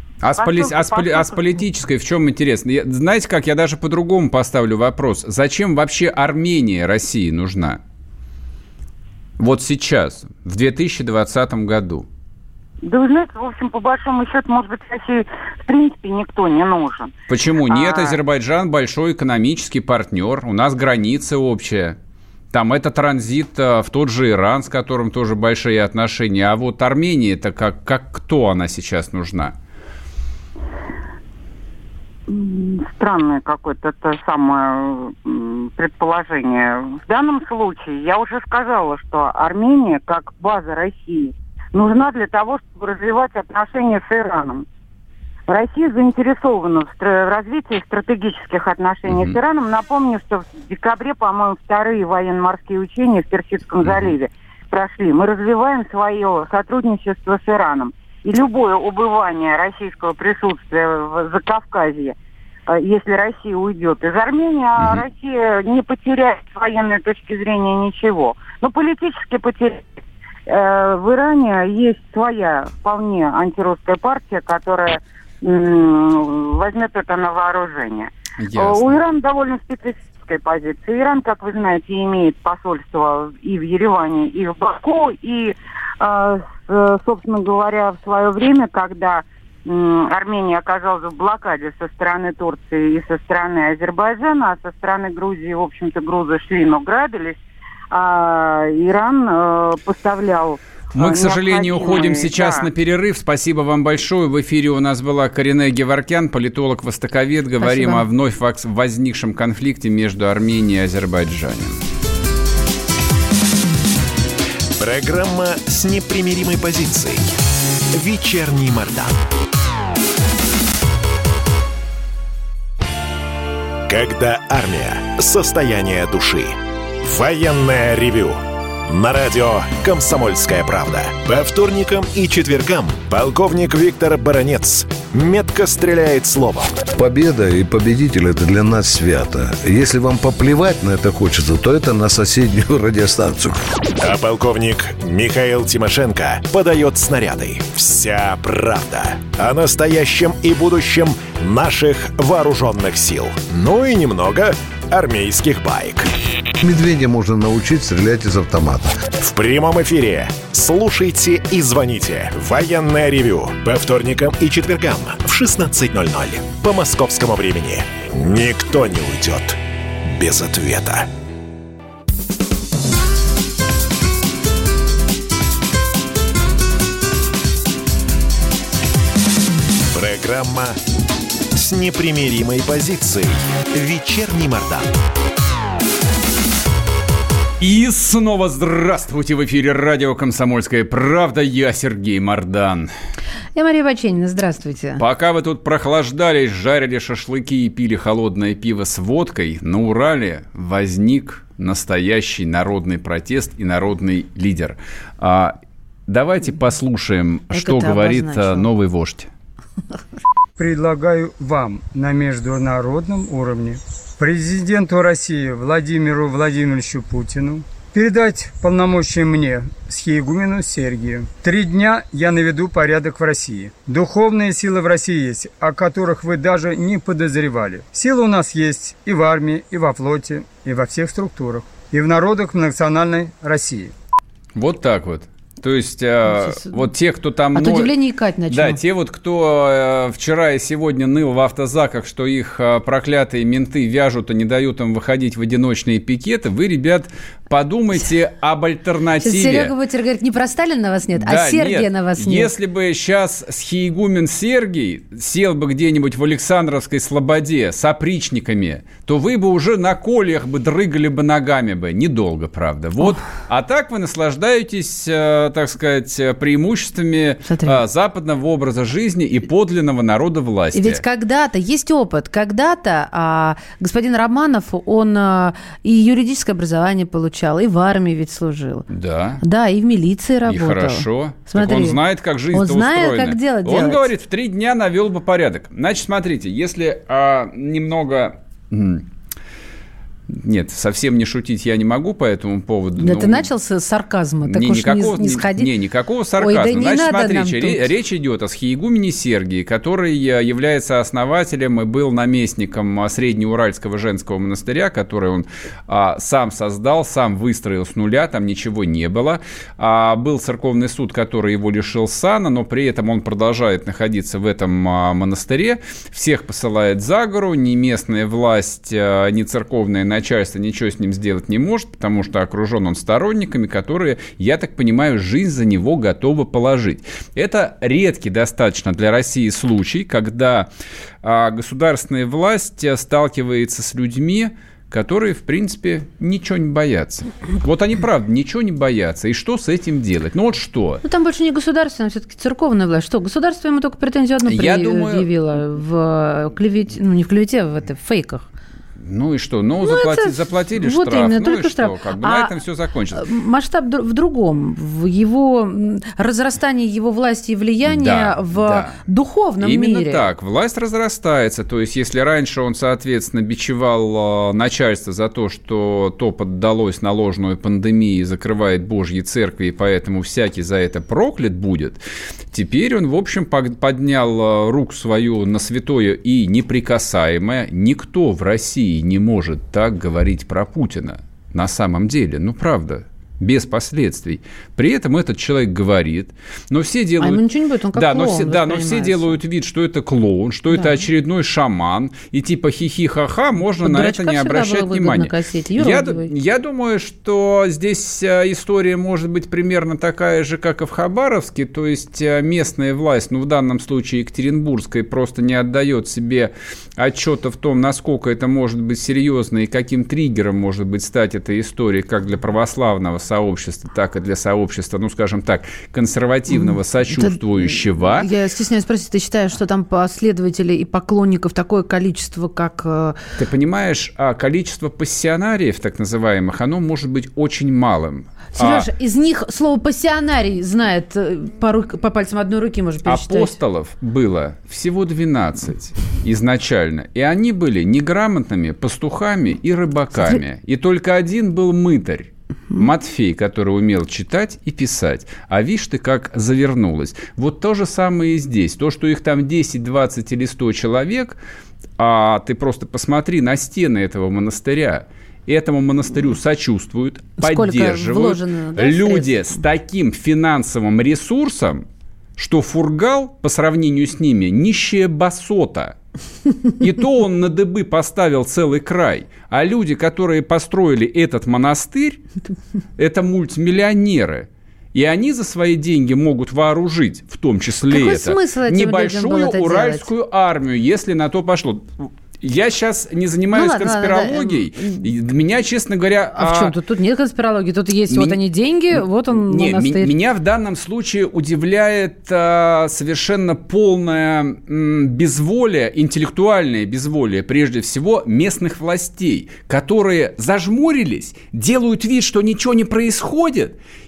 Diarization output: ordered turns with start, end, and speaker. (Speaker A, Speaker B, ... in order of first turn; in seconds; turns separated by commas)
Speaker A: 0.2-7.8, Speaker B: 0.4-1.6, Speaker A: 9.4-12.1, Speaker B: 12.8-17.1, Speaker A: 17.3-22.0, Speaker B: 17.7-18.2, Speaker A: 22.5-29.6, Speaker B: 32.3-44.7, Speaker B: 45.5-62.2, Speaker A: 49.1-49.4, Speaker A: 53.8-54.1, Speaker B: 62.7-97.4, Speaker A: 64.8-65.0, Speaker A: 78.4-79.0, Speaker B: 97.9-102.7, Speaker A: 101.0-111.8, Speaker C: 107.6-108.0, Speaker D: 114.8-117.4, Speaker D: 117.9-119.2, Speaker D: 123.9-136.8, Speaker E: 137.0-143.7, Speaker D: 144.0-156.1, Speaker E: 156.6-159.0, Speaker D: 159.2-171.1, Speaker D: 179.9-180.8, Speaker D: 181.5-184.9, Speaker A: 187.6-192.9, Speaker C: 193.6-195.0, Speaker A: 195.0-209.3, Speaker C: 207.5-208.7, Speaker F: 210.6-233.9, Speaker A: 234.6-237.9, Speaker C: 236.3-236.8, Speaker C: 237.5-238.8, Speaker A: 238.5-249.7, Speaker C: 249.2-252.5, Speaker A: 251.2-271.0, Speaker C: 267.5-267.8, Speaker C: 270.7-278.9, Speaker A: 278.9-279.4, Speaker C: 279.4-282.0, Speaker A: 280.4-289.1, Speaker C: 282.5-284.1, Speaker A: 290.3-293.5, Speaker C: 293.0-295.7, Speaker A: 294.5-330.7, Speaker C: 296.4-297.9, Speaker A: 331.2-341.0, Speaker C: 341.0-348.5, Speaker A: 344.5-345.3, Speaker A: 349.0-353.3, Speaker C: 349.8-352.5, Speaker C: 353.1-360.2, Speaker A: 357.9-359.0, Speaker A: 359.6-418.3, Speaker C: 387.2-389.4, Speaker C: 390.7-391.0, Speaker C: 393.8-396.3, Speaker C: 417.2-423.2, Speaker A: 423.4-428.9, Speaker C: 428.6-433.5, Speaker A: 433.1-451.4, Speaker A: 452.0-461.9, Speaker C: 457.4-459.6, Speaker A: 462.4-466.0, Speaker A: 466.8-472.2, Speaker A: 473.0-486.8, Speaker C: 477.9-480.1, Speaker C: 483.5-485.1, Speaker C: 486.4-490.1, Speaker A: 488.1-488.4, Speaker A: 488.9-503.8